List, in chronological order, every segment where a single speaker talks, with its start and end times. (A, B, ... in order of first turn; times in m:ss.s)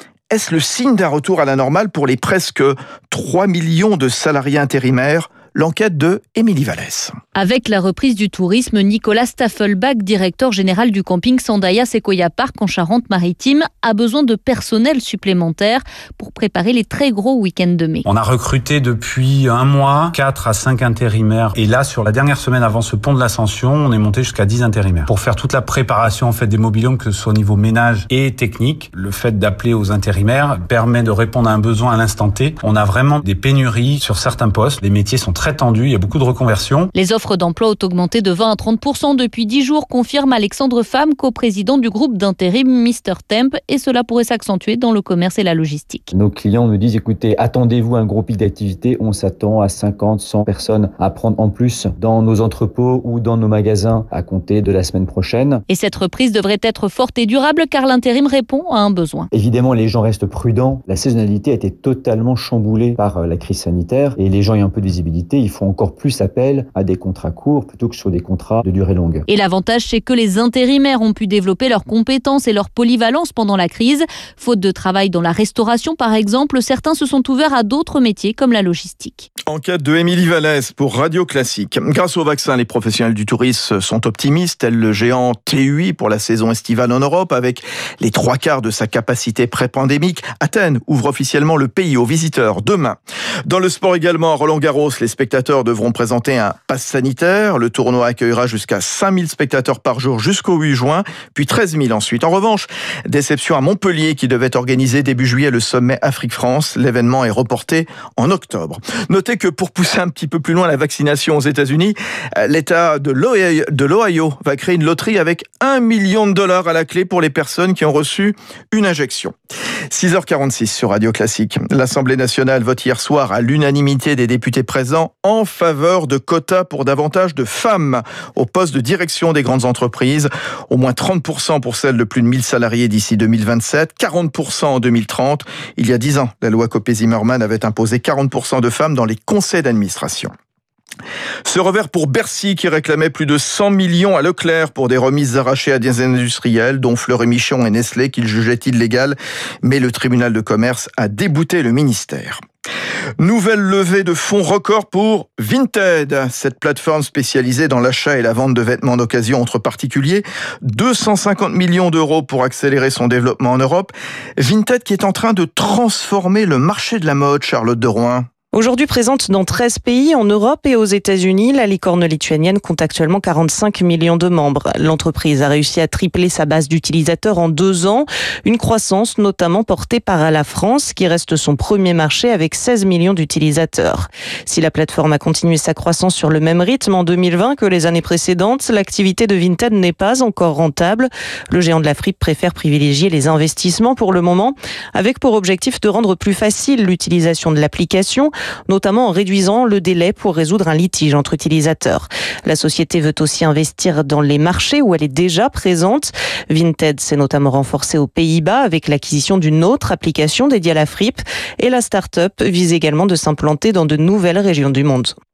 0:00.3-0:07.2 A
0:07.3-0:18.0 B
0:18.0-0:36.9 C
0:36.9-0:46.1 B
0:46.1-0:55.6 D
0:55.7-0:59.3 B
0:59.3-1:09.2 D
1:09.3-1:19.3 B
1:19.5-1:59.3 A
1:59.9-2:20.3 A
2:21.4-2:32.4 A
2:33.2-2:48.3 A
2:48.5-3:35.1 E